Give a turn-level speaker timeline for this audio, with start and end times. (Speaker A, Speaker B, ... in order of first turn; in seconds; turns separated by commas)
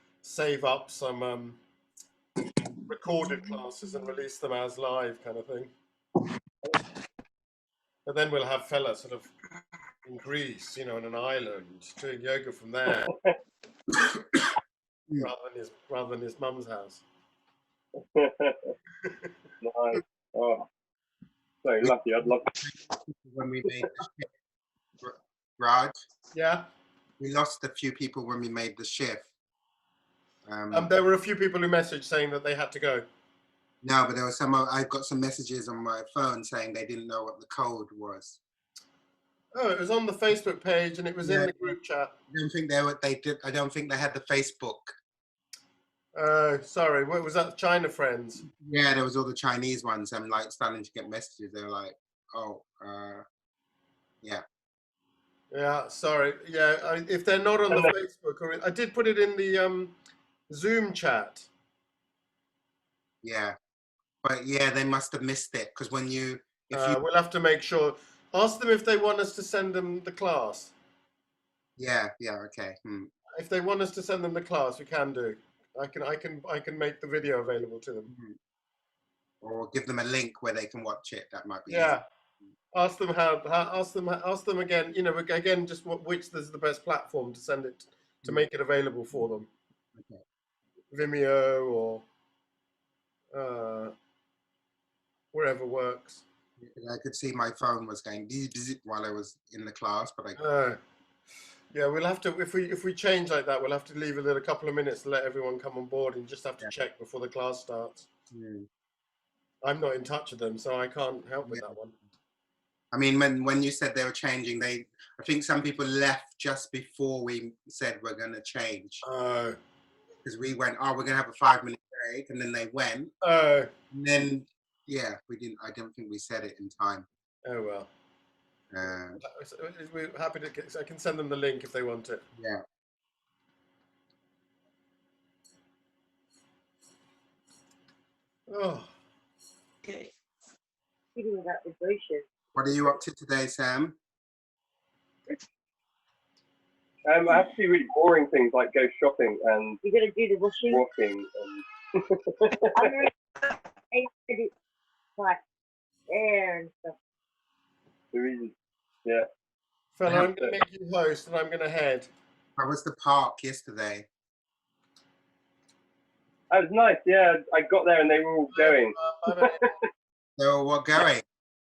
Speaker A: 0.2-1.6, Speaker A: 2.9-5.7, Speaker A: 8.1-9.3, Speaker A: 10.0-13.1, Speaker A: 15.2-17.0, Speaker B: 18.1-18.7, Speaker A: 19.0-19.3, Speaker B: 19.6-20.6, Speaker B: 21.6-22.5, Speaker C: 21.8-24.3, Speaker C: 25.0-25.9, Speaker A: 26.3-26.6, Speaker C: 27.2-29.3, Speaker C: 30.4-30.9, Speaker A: 30.7-33.0, Speaker C: 33.8-38.4, Speaker A: 39.5-42.1, Speaker C: 41.2-41.7, Speaker C: 42.3-44.9, Speaker A: 46.1-48.4, Speaker C: 48.5-53.2, Speaker A: 55.5-59.9, Speaker A: 60.5-61.5, Speaker C: 63.2-63.5, Speaker C: 64.2-67.0, Speaker A: 66.7-70.7, Speaker C: 71.8-73.1, Speaker A: 73.3-78.1, Speaker C: 78.1-78.4, Speaker C: 79.4-81.9, Speaker A: 81.7-82.0, Speaker A: 82.7-89.5, Speaker C: 90.0-90.2, Speaker A: 90.9-92.0, Speaker A: 93.3-93.9, Speaker A: 95.3-96.2, Speaker C: 96.6-100.4, Speaker A: 100.4-100.8, Speaker A: 101.7-108.1, Speaker C: 108.3-108.7, Speaker A: 109.6-111.9, Speaker C: 112.9-119.0, Speaker A: 119.0-119.6, Speaker C: 120.2-123.1, Speaker A: 123.2-123.7, Speaker C: 123.9-127.0, Speaker A: 127.4-127.9, Speaker C: 128.7-129.2, Speaker A: 129.2-132.2, Speaker A: 138.5-138.9, Speaker D: 141.1-142.2, Speaker C: 142.5-144.0, Speaker B: 147.1-149.8, Speaker D: 149.8-150.8, Speaker B: 150.6-152.6, Speaker D: 152.7-153.1, Speaker D: 153.9-154.5, Speaker D: 156.1-156.9, Speaker B: 158.1-158.5, Speaker A: 159.9-162.1, Speaker B: 160.3-160.6, Speaker C: 162.6-164.1, Speaker B: 166.5-169.7, Speaker A: 168.5-169.7, Speaker C: 170.4-171.2